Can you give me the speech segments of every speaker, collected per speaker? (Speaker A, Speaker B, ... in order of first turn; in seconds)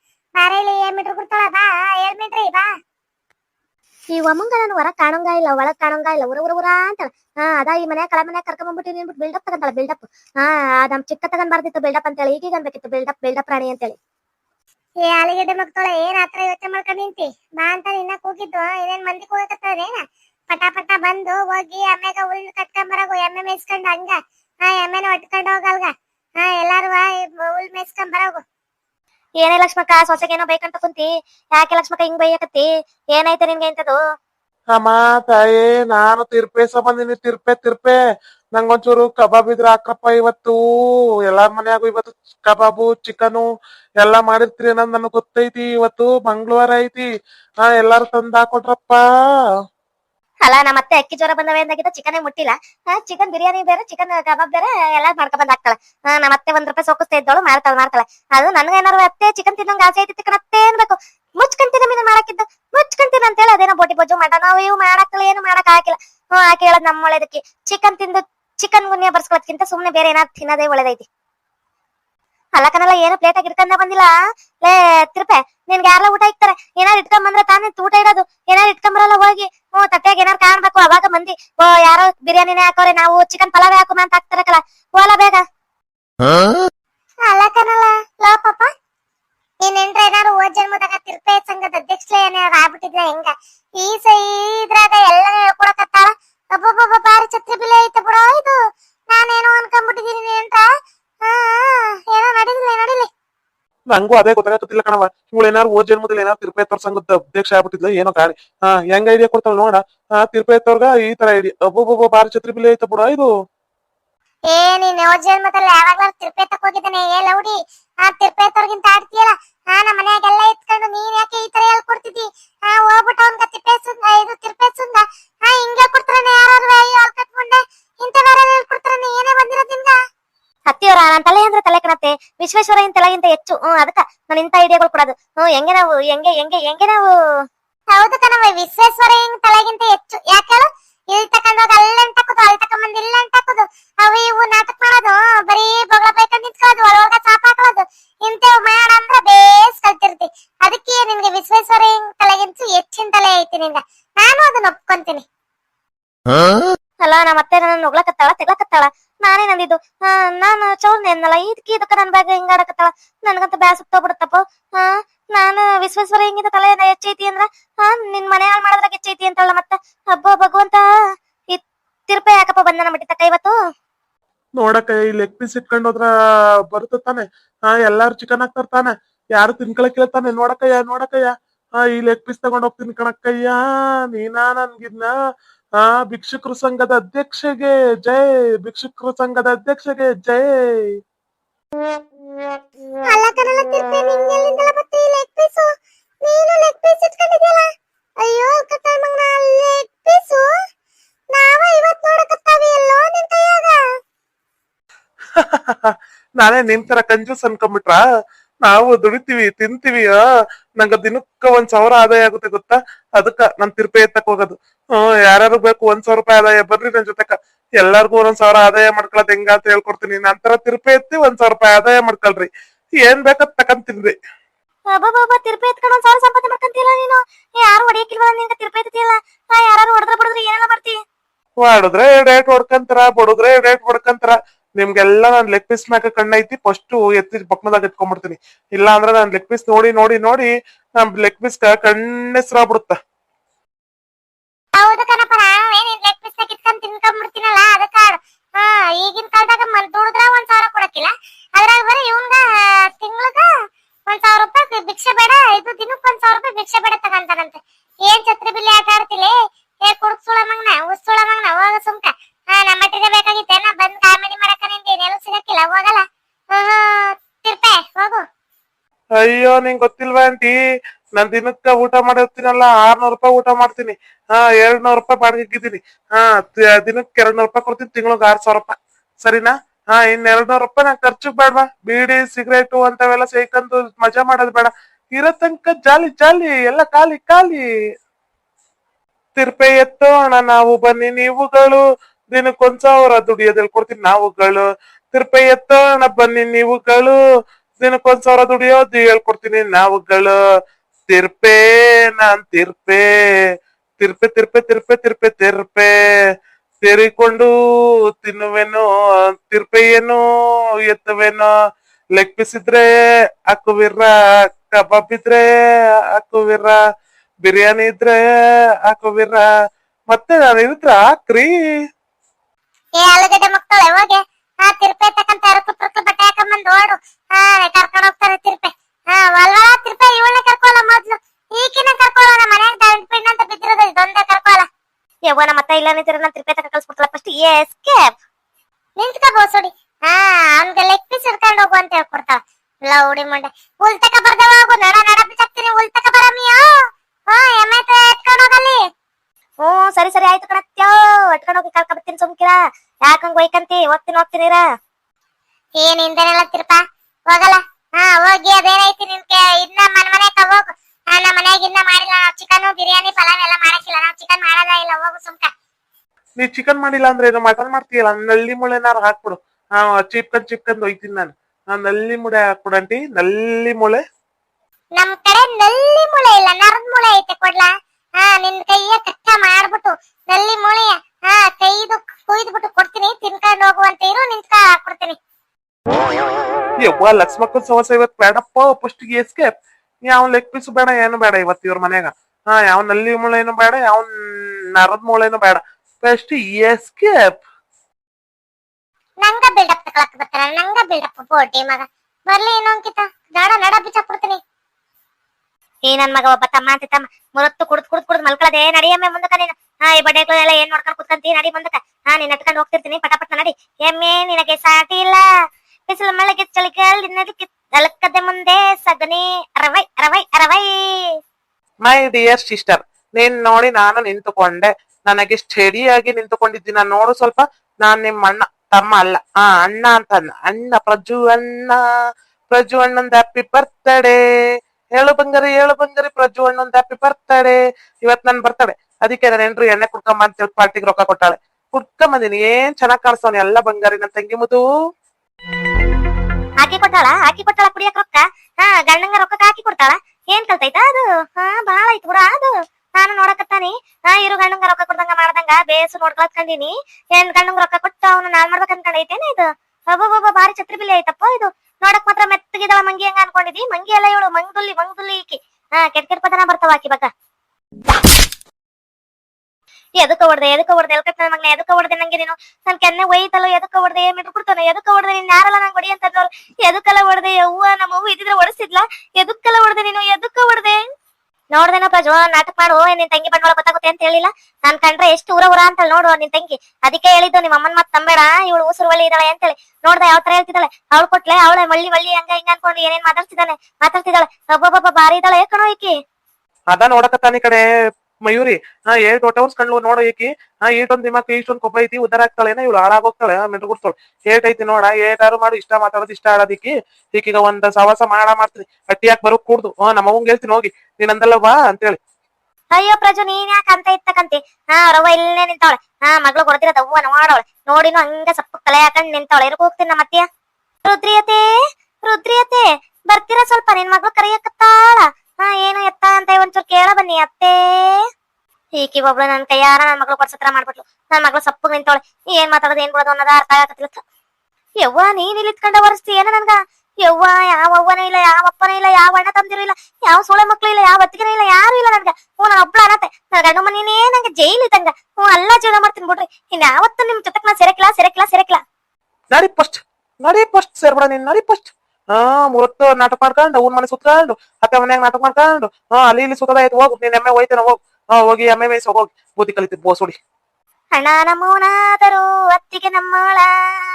Speaker A: 0.4-2.7, 15.1-20.0, 20.5-28.4, 87.3-88.7, 89.6-98.6, 99.1-100.7, 101.3-103.1, 114.5-129.9, 137.9-155.2, 193.0-195.7, 196.2-197.7, 198.2-200.5, 201.4-203.8, 244.8-252.4, 253.0-253.5, 254.1-259.3, 259.9-266.0, 266.5-268.2, 323.0-334.7, 339.0-346.6, 347.3-348.8, 355.8-356.8, 357.3-365.5, 375.0-377.7, 378.2-385.2, 399.2-404.4
Speaker B: 4.1-14.0, 29.4-34.0, 50.4-71.1, 72.6-74.1, 74.6-85.4, 130.7-137.1, 157.0-170.8, 171.5-173.5, 224.9-231.0, 335.3-338.1, 349.6-354.6, 405.8-415.2, 415.9-420.8, 446.6-467.1, 470.0-480.8, 481.5-495.9, 512.7-520.2, 520.9-521.4, 522.0-528.0, 528.8-534.0, 534.8-548.6, 560.9-563.5
Speaker C: 34.8-38.0, 38.6-40.6, 41.3-43.5, 44.0-47.1, 47.6-49.0, 103.9-113.3, 174.6-176.1, 176.7-181.3, 181.8-183.6, 184.1-185.1, 185.8-190.9, 205.4-208.0, 208.7-210.2, 210.8-222.5, 223.0-224.1, 231.6-243.0, 269.2-270.5, 271.2-287.6, 289.4-297.2, 297.8-300.4, 301.1-303.1, 304.0-305.9, 306.8-307.5, 308.2-308.9, 309.5-310.2, 310.9-311.5, 312.2-312.9, 313.5-314.1, 314.7-315.4, 316.1-316.8, 317.4-318.2, 318.9-319.4, 320.1-321.5, 366.4-374.0, 386.8-389.5, 390.1-394.1, 394.8-397.4, 421.9-431.8, 432.5-434.2, 435.0-444.6, 496.7-497.6, 498.3-512.0, 549.3-560.2